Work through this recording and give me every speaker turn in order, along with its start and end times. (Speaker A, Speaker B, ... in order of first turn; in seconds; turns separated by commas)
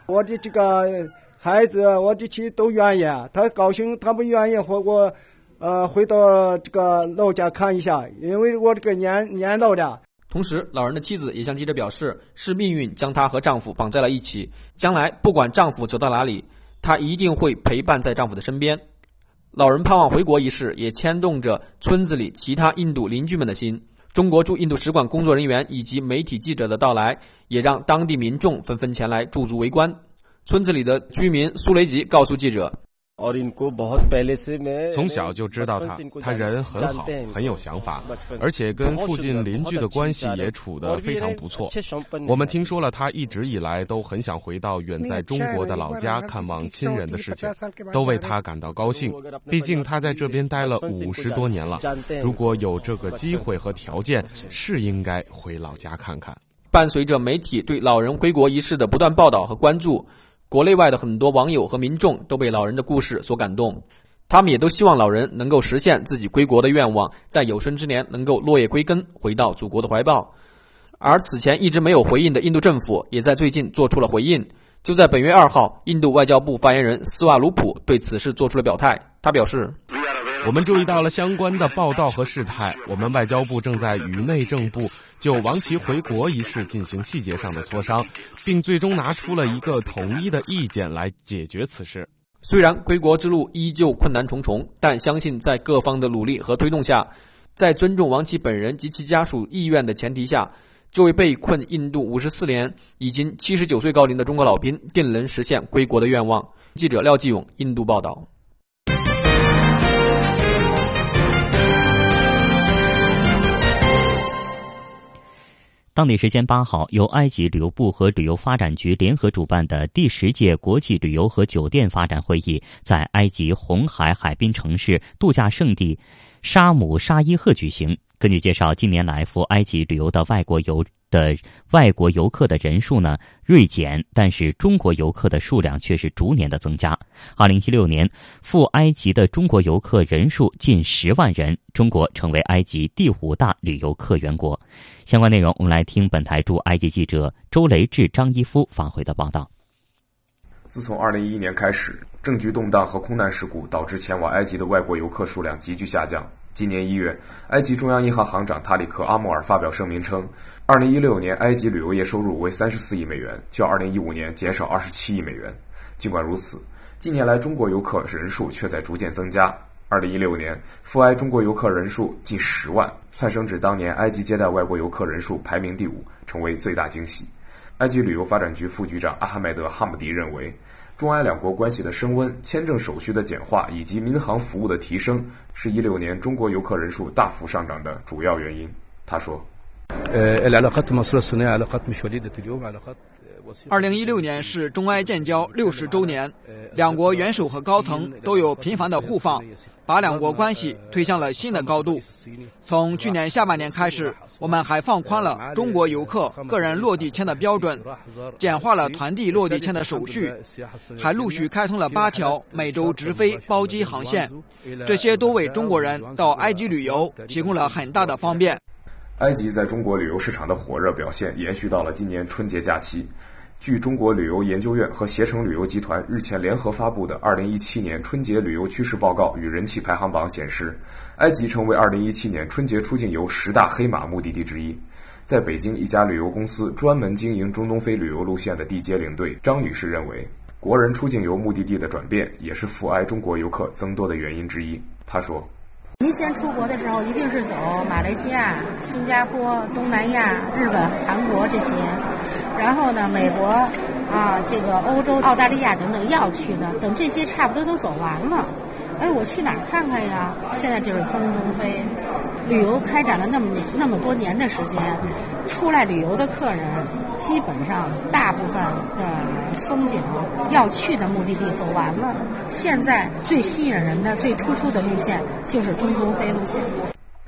Speaker A: 0.1-10.0, Speaker B: 10.3-18.8, Speaker B: 19.5-32.8, Speaker C: 34.9-56.4, Speaker B: 56.7-70.3, Speaker B: 71.0-79.8, Speaker C: 80.4-92.1, Speaker B: 92.4-108.3, Speaker D: 116.0-149.5, Speaker E: 150.7-189.5, Speaker F: 193.7-202.0, Speaker F: 202.7-207.8, Speaker F: 208.4-210.4, Speaker F: 211.0-218.6, Speaker E: 219.2-245.5, Speaker G: 246.0-276.8